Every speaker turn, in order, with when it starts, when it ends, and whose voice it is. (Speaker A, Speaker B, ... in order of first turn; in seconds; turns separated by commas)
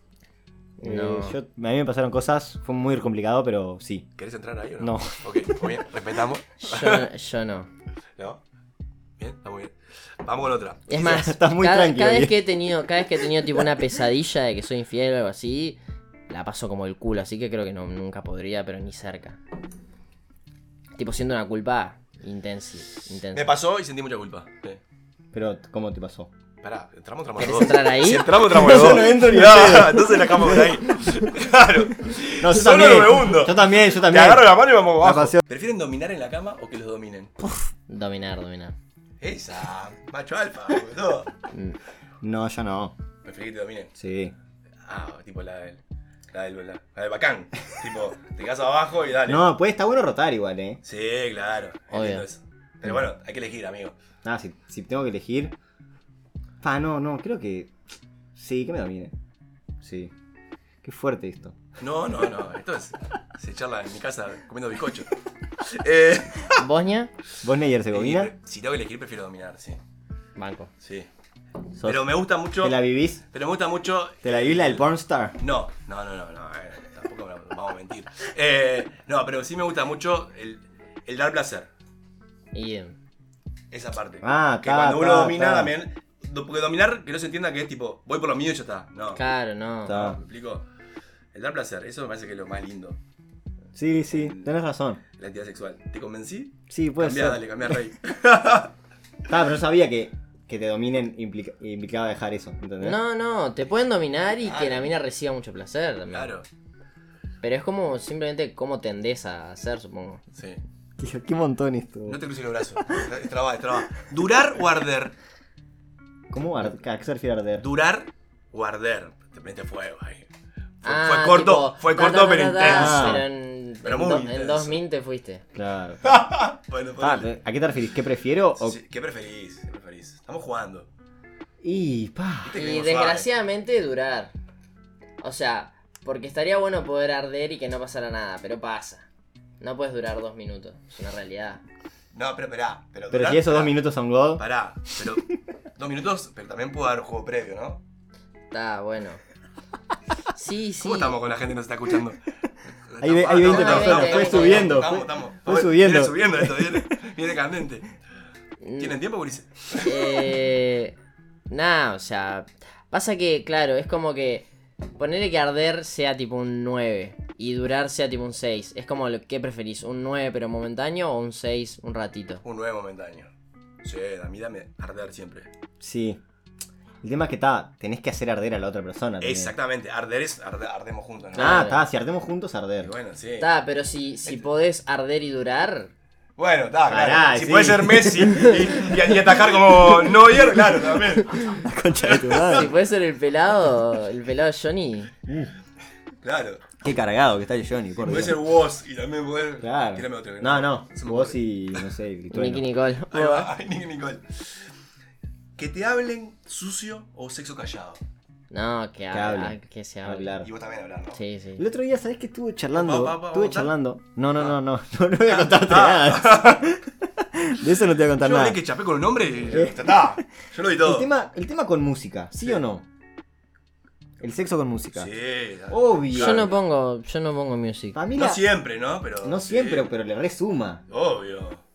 Speaker A: 0.8-1.4, Speaker B: 0.8-4.1, Speaker C: 4.2-7.1, Speaker B: 4.8-5.2, Speaker A: 6.6-7.7, Speaker C: 9.2-10.9, Speaker A: 10.9-19.4, Speaker B: 10.9-12.4, Speaker A: 21.0-23.5, Speaker C: 23.3-24.8, Speaker B: 25.3-26.3, Speaker C: 26.6-37.3, Speaker A: 27.4-28.6, Speaker B: 28.5-31.0, Speaker B: 32.4-35.4, Speaker A: 37.9-38.7, Speaker C: 39.2-41.3, Speaker B: 42.2-43.0, Speaker C: 43.2-43.9, Speaker B: 44.0-44.4, Speaker C: 44.9-45.8, Speaker C: 46.3-49.5, Speaker B: 49.2-50.8, Speaker C: 50.8-53.9, Speaker A: 51.9-52.2, Speaker B: 54.2-55.5, Speaker B: 56.6-57.7, Speaker B: 58.4-59.1, Speaker B: 59.8-60.1, Speaker B: 60.8-61.6, Speaker C: 61.8-66.6, Speaker A: 66.5-67.1, Speaker B: 67.4-68.3, Speaker C: 67.9-69.8, Speaker A: 70.4-70.7, Speaker C: 70.8-71.1, Speaker B: 71.8-73.2, Speaker C: 71.8-72.8, Speaker C: 73.3-74.9, Speaker B: 74.2-75.4, Speaker C: 75.4-81.7, Speaker A: 82.5-83.0, Speaker C: 83.7-89.2, Speaker B: 84.2-85.7, Speaker A: 89.1-90.1, Speaker B: 89.9-90.2, Speaker C: 89.9-90.6, Speaker C: 91.3-93.0, Speaker B: 93.7-95.0, Speaker C: 94.1-94.5, Speaker C: 95.2-98.7, Speaker B: 96.7-97.8, Speaker B: 99.3-103.0, Speaker A: 102.8-106.3, Speaker C: 104.4-104.9, Speaker C: 106.1-106.5, Speaker A: 107.4-110.2, Speaker C: 110.3-110.6, Speaker B: 111.0-112.2, Speaker C: 112.1-115.1, Speaker B: 116.3-117.7, Speaker C: 117.6-120.3, Speaker C: 120.8-123.2, Speaker A: 120.8-125.4, Speaker B: 122.6-123.2, Speaker C: 123.8-124.8, Speaker B: 125.5-126.3, Speaker C: 126.0-127.3, Speaker B: 127.0-128.8, Speaker C: 128.6-130.9, Speaker B: 131.6-132.6, Speaker C: 132.4-133.3, Speaker A: 132.5-134.3, Speaker A: 135.2-139.1, Speaker A: 139.6-141.6, Speaker C: 142.1-143.8, Speaker B: 143.1-144.4, Speaker C: 144.4-147.8, Speaker A: 148.5-149.2, Speaker A: 150.3-151.2, Speaker C: 150.8-152.2, Speaker C: 152.9-157.8, Speaker B: 153.0-156.8, Speaker A: 153.4-154.8, Speaker A: 158.6-159.0, Speaker C: 158.8-160.3, Speaker A: 159.8-161.0, Speaker A: 161.5-172.4, Speaker C: 172.4-173.3, Speaker C: 173.8-175.5, Speaker B: 175.8-176.2, Speaker B: 177.0-179.5, Speaker C: 179.2-181.7, Speaker A: 181.3-181.8, Speaker B: 181.3-182.9, Speaker C: 182.8-183.5, Speaker A: 183.4-185.9, Speaker C: 186.4-191.4, Speaker B: 186.9-192.7, Speaker C: 192.0-192.7, Speaker A: 192.5-195.1, Speaker B: 195.3-195.5, Speaker C: 196.2-196.7, Speaker B: 196.8-198.4, Speaker C: 198.0-201.9, Speaker B: 199.6-202.6, Speaker A: 202.3-203.5, Speaker C: 203.1-204.5, Speaker C: 205.6-208.0, Speaker A: 208.5-210.3, Speaker B: 209.1-210.5, Speaker C: 210.4-211.2, Speaker A: 211.1-211.6, Speaker B: 211.6-218.6, Speaker C: 212.7-213.7, Speaker C: 215.3-216.7, Speaker C: 218.2-221.1, Speaker B: 219.5-220.1, Speaker B: 220.8-222.8, Speaker B: 224.2-225.1, Speaker C: 225.0-226.6, Speaker B: 225.7-226.5, Speaker A: 226.1-228.0, Speaker B: 227.9-228.4, Speaker C: 228.2-229.9, Speaker B: 229.2-230.8, Speaker C: 230.9-231.6